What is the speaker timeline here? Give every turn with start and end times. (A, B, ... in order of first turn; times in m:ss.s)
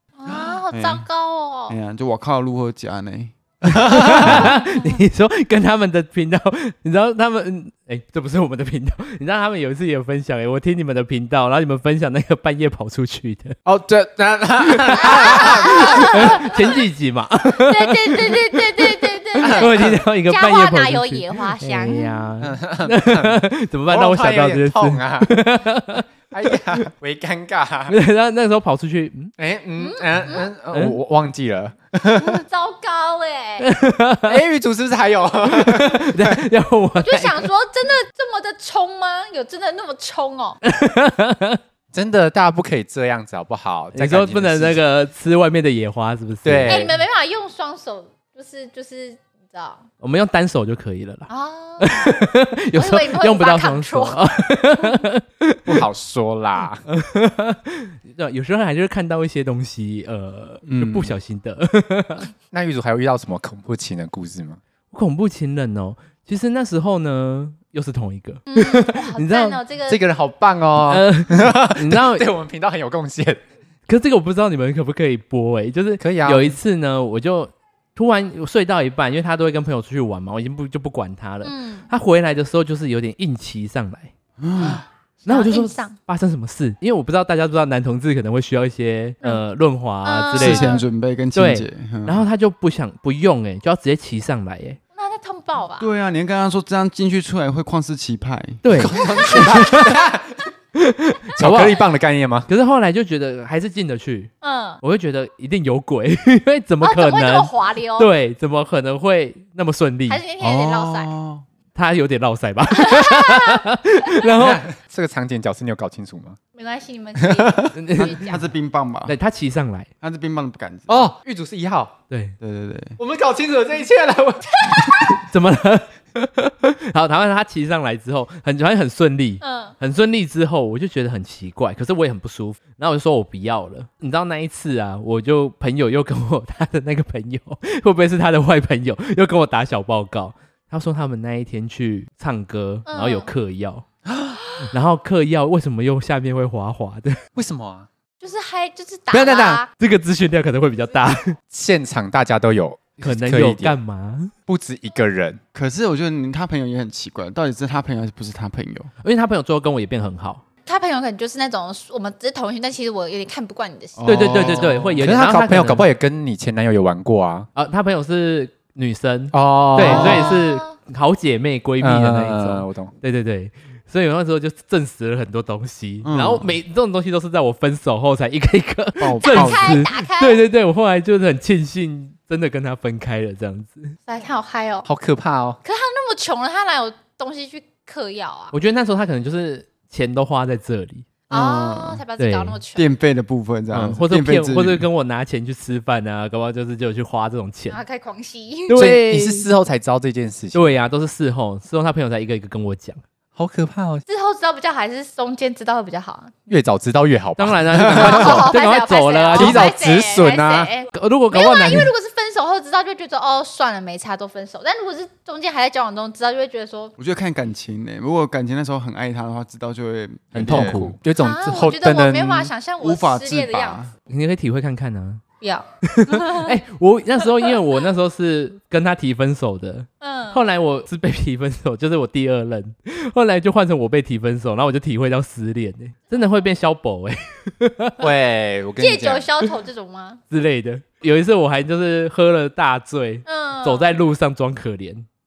0:00.2-0:01.8 A
0:00.7-0:01.1 B
0:01.7-0:04.5 B
0:03.7-0:04.5 C
0:03.9-0:13.6 D
0:04.6-0:05.0 A
0:13.6-0:16.6 C
0:14.7-0:26.9 D
0:15.0-0:16.8 A
0:17.6-0:22.3 A
0:19.4-0:20.0 C
0:22.4-0:25.4 C
0:26.3-0:28.0 C
0:27.9-0:29.3 D
0:29.4-0:32.4 C
0:29.8-0:30.5 A
0:30.7-0:31.0 D
0:32.2-0:33.7 A
0:33.6-0:34.4 D
0:34.3-0:36.4 C
0:35.5-0:37.5 D
0:37.0-0:40.6 A
0:40.6-0:41.6 D
0:41.9-0:44.8 C
0:43.9-0:46.9 D
0:46.4-0:46.9 C
0:46.7-0:49.8 A
0:50.0-0:51.3 D
0:51.3-0:54.2 A
0:51.8-0:55.8 D
0:55.7-0:56.8 C
0:56.9-1:02.3 D
1:00.7-1:01.1 B
1:02.5-1:04.6 C
1:04.9-1:09.6 D
1:08.5-1:10.0 A
1:09.9-1:13.4 C
1:10.8-1:12.3 D
1:13.9-1:24.1 D
1:16.0-1:16.5 C
1:21.4-1:21.9 A
1:24.4-1:24.8 B
1:24.6-1:26.0 A
1:25.3-1:30.8 D
1:30.0-1:30.8 A
1:30.4-1:32.2 B
1:31.4-1:34.8 D
1:35.0-1:35.9 A
1:35.8-1:38.6 B
1:38.6-1:40.0 D
1:38.8-1:40.4 C
1:39.0-1:39.8 A
1:40.7-1:41.8 D
1:41.4-1:42.5 C
1:42.5-1:44.3 D
1:44.4-1:44.8 A
1:44.8-1:50.2 D
1:46.8-1:48.1 A
1:50.1-1:51.1 A
1:50.4-1:51.4 B
1:51.8-1:54.6 D
1:52.7-1:53.6 A
1:54.3-1:56.4 C
1:56.6-1:58.4 A
1:57.2-1:57.7 C
1:57.8-1:58.3 D
1:58.0-1:59.2 B
1:59.1-1:59.9 D
2:00.0-2:01.1 B
2:00.9-2:02.0 C
2:02.1-2:02.4 D
2:02.4-2:03.0 B
2:03.0-2:05.1 C
2:05.2-2:23.8 D
2:09.4-2:09.8 A
2:22.9-2:23.3 A
2:24.1-2:24.4 C
2:24.7-2:27.2 D
2:27.4-2:27.9 C
2:28.2-2:29.7 A
2:29.1-2:29.6 C
2:29.8-2:31.4 D
2:31.5-2:33.8 C
2:33.0-2:34.3 D
2:34.5-2:35.4 C
2:35.5-2:38.9 B
2:39.0-2:40.4 D
2:40.7-2:44.5 A
2:44.0-2:45.0 B
2:44.1-2:45.9 D
2:45.0-2:47.5 C
2:47.6-3:04.0 D
2:49.3-2:50.3 C
2:49.8-2:50.7 A
2:49.9-2:50.3 B
2:51.8-2:52.9 C
2:56.0-2:56.6 B
2:59.0-2:59.6 C
2:59.2-3:00.4 A
3:04.1-3:04.9 A
3:04.9-3:05.6 C
3:05.6-3:08.5 A
3:08.5-3:11.1 D
3:11.3-3:12.9 A
3:11.3-3:12.0 B
3:12.2-3:12.6 D
3:12.8-3:14.9 B
3:13.7-3:17.8 D
3:17.7-3:18.8 A
3:18.7-3:19.5 D
3:18.7-3:20.7 C
3:20.5-3:23.0 D
3:23.4-3:24.0 C
3:24.1-3:26.5 A
3:26.5-3:28.5 C
3:27.4-3:29.7 D
3:27.8-3:36.9 A
3:29.3-3:30.7 C
3:30.9-3:31.9 D
3:37.0-3:40.9 B
3:40.4-3:41.0 D
3:40.4-3:42.5 C
3:41.2-3:43.8 A
3:42.8-3:43.9 B
3:44.1-3:45.2 D
3:45.4-3:46.6 A
3:45.8-3:58.1 D
3:47.2-3:47.5 A
3:50.0-3:50.4 A
3:58.0-3:59.3 C
3:58.8-4:00.2 A
4:00.3-4:05.1 D
4:03.3-4:03.9 A